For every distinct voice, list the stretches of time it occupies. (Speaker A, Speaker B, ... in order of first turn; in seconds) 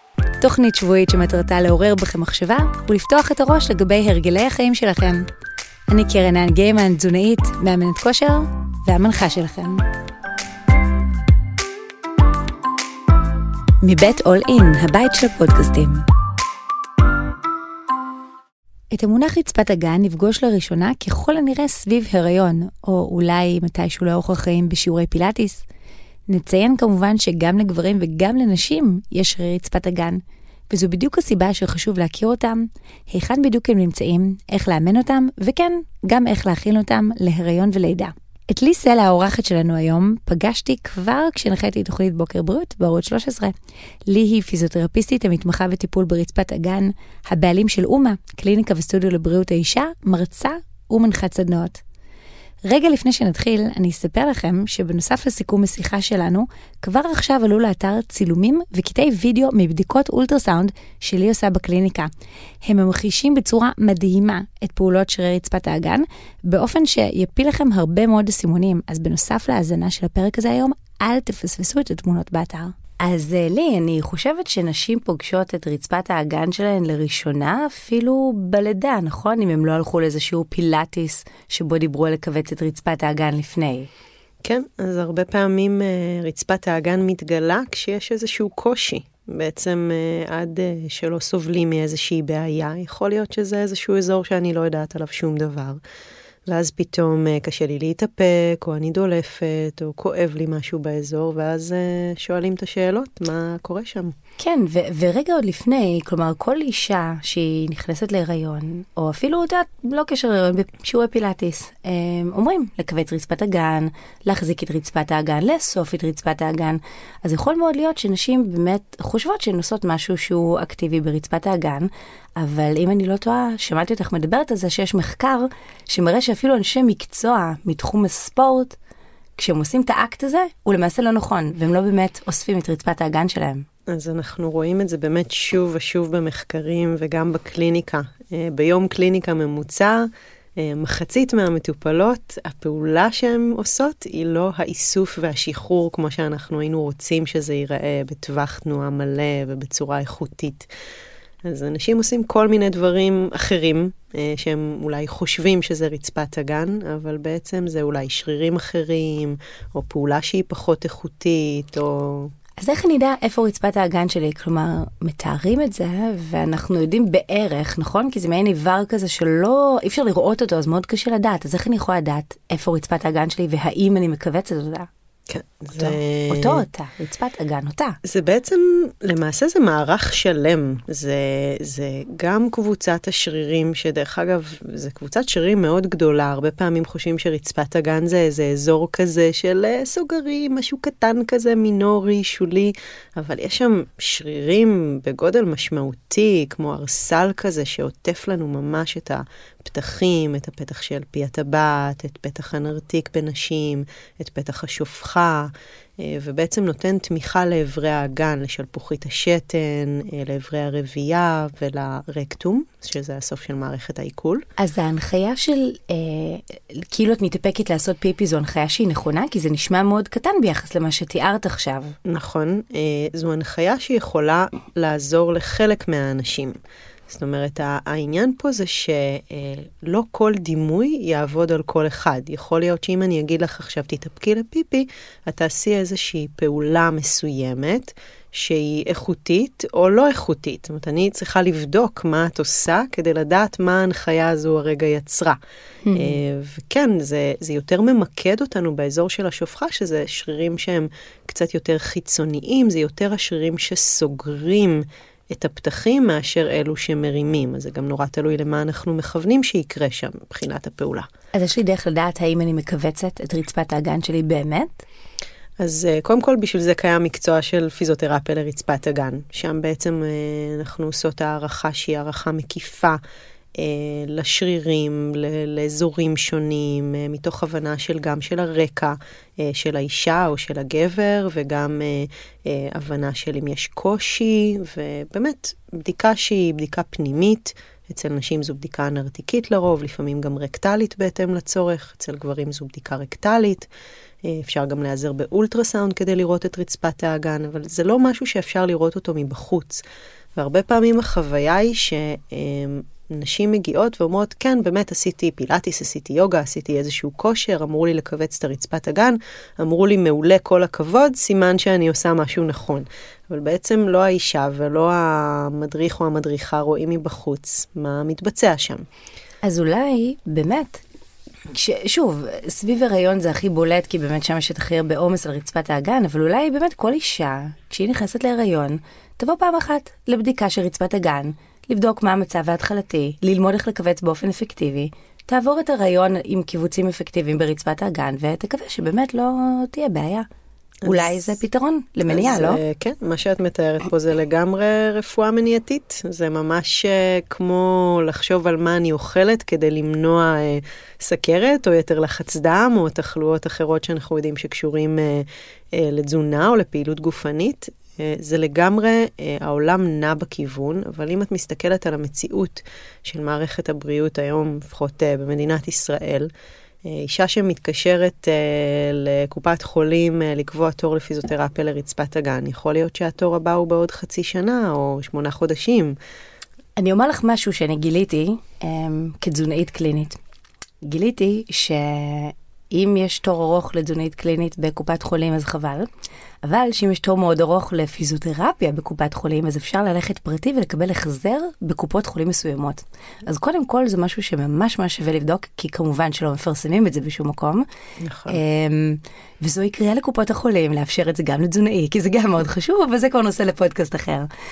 Speaker A: 0.4-5.2, 5.9-9.8, 13.8-16.0, 18.9-25.6, 26.3-43.5, 44.1-51.8, 52.6-62.1, 62.6-83.9, 104.4-128.8, 129.4-133.7, 162.6-174.9, 175.8-178.0, 214.6-222.0, 245.8-246.2, 261.3-264.9, 319.4-320.8, 321.5-340.3, 340.9-342.6, 376.8-380.2, 380.8-385.9, 386.4-397.7, 398.3-404.3
Speaker B: 84.4-95.8, 96.5-104.2, 133.9-150.7, 151.4-162.3, 175.3-176.6, 178.0-214.4, 222.1-226.6, 227.1-245.4, 245.9-261.1, 265.6-273.0, 273.6-293.7, 294.2-299.8, 300.4-318.9, 340.8-341.3, 342.1-366.3, 366.8-376.0, 398.0-398.4